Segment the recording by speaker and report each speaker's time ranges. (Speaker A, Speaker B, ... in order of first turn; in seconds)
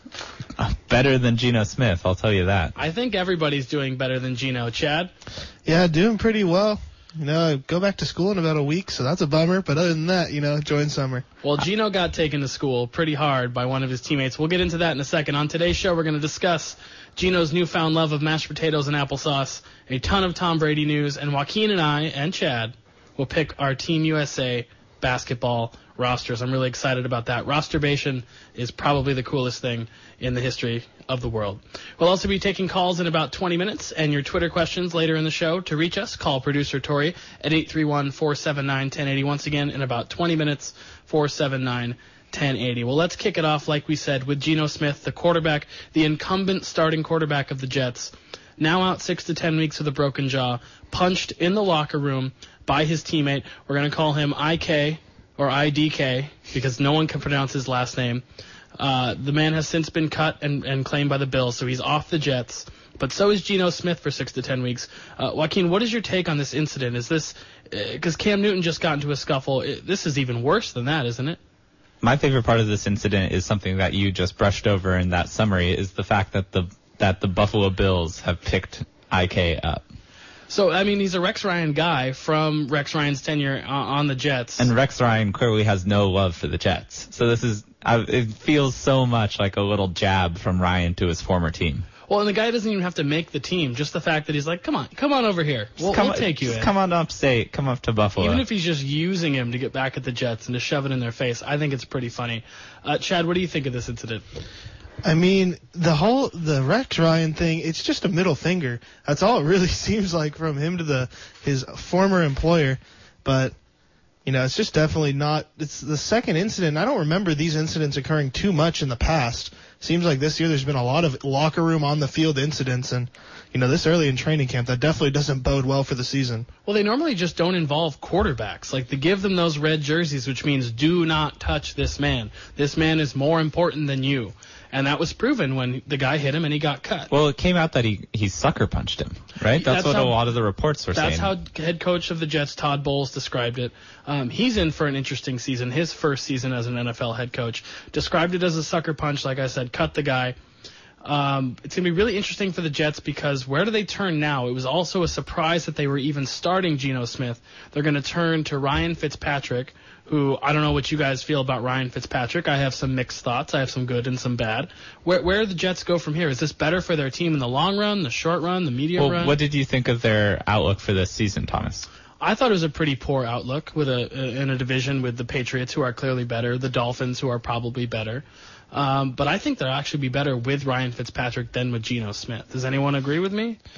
Speaker A: 0.6-2.7, 72.0-79.8, 84.6-91.8, 95.8-98.4, 137.1-141.3, 168.9-171.8
Speaker B: 2.8-5.1, 11.4-58.2, 58.8-71.4, 80.5-84.7, 92.1-96.7, 98.2-104.2, 126.7-137.1, 139.5-140.1, 140.9-150.3, 151.0-169.3, 172.2-183.6
Speaker C: 5.6-11.2, 105.0-113.5, 114.2-126.5